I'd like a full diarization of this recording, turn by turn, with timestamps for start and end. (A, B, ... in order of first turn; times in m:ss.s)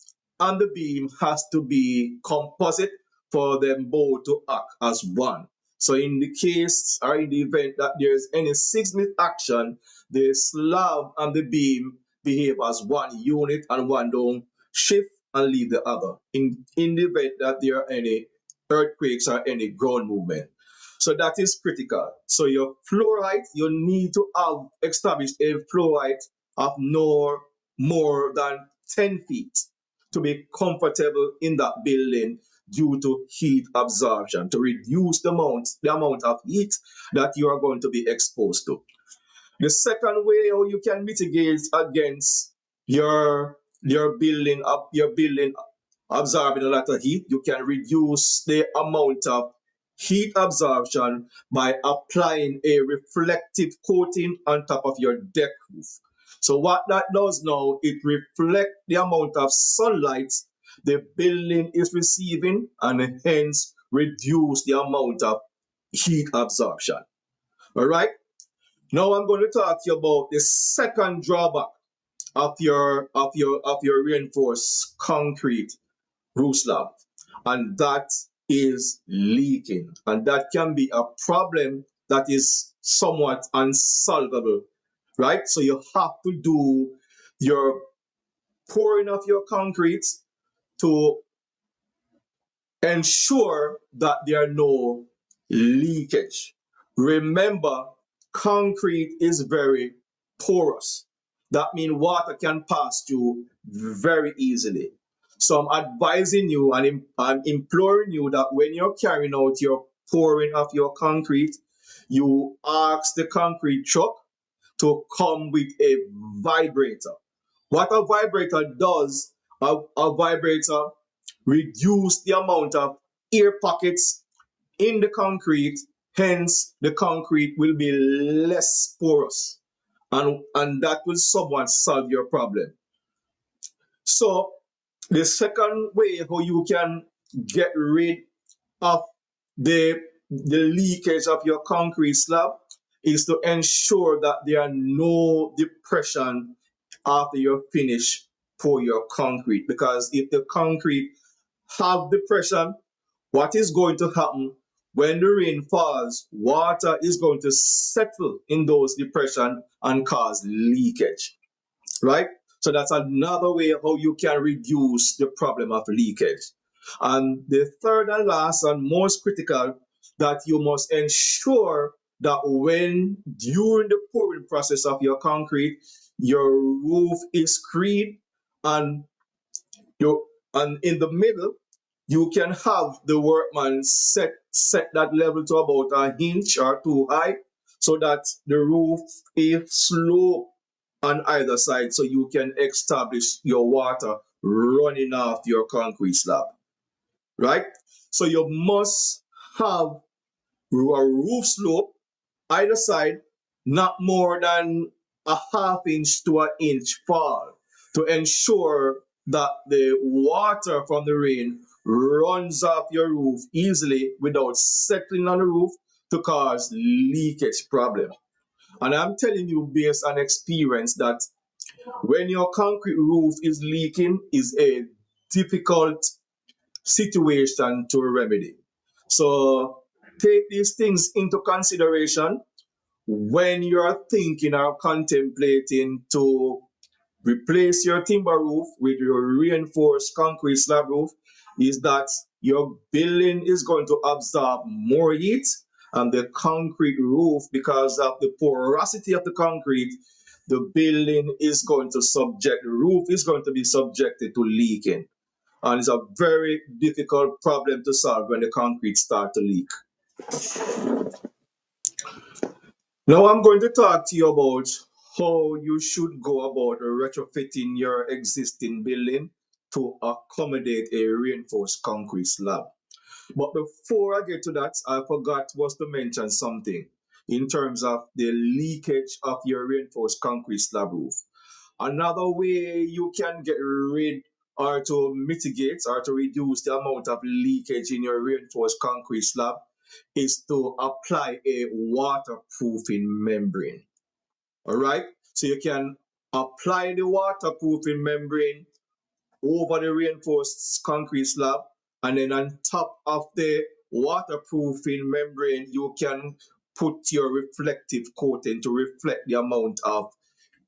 0:00.4-0:38.8 A
0:39.6-0:45.5 A
0:46.1-1:05.4 A
1:05.9-1:07.0 A
1:07.7-1:08.1 A
1:08.9-1:11.7 A
1:12.3-1:15.8 A
1:16.3-1:16.9 A
1:17.4-1:24.6 A
1:25.2-1:27.8 A
1:28.7-1:30.2 A
1:30.8-1:31.2 A
1:32.8-1:54.2 A
1:54.8-1:57.1 A
1:57.7-2:00.9 A
2:01.4-2:04.2 A
2:04.8-2:09.6 A
2:10.1-2:12.7 A
2:14.0-2:14.5 A
2:15.1-2:18.2 A
2:19.6-2:26.5 A
2:27.0-2:31.1 A
2:31.7-2:32.7 A
2:33.3-2:41.3 A
2:42.0-2:59.0 A
3:00.0-3:01.6 A
3:02.1-3:10.5 A
3:11.0-3:16.5 A
3:17.4-3:20.0 A
3:20.7-3:21.9 A
3:22.5-3:38.1 A
3:38.8-3:41.2 A
3:42.0-3:46.1 A
3:46.8-3:48.6 A
3:49.1-3:52.4 A
3:53.0-3:56.7 A
3:57.2-4:10.0 A
4:10.5-4:15.1 A
4:15.6-4:19.7 A
4:20.3-4:21.1 A
4:23.1-4:32.7 A
4:33.3-4:41.2 A
4:41.8-4:49.6 A
4:50.1-4:53.8 A
4:54.6-4:58.7 A
4:59.4-5:10.1 A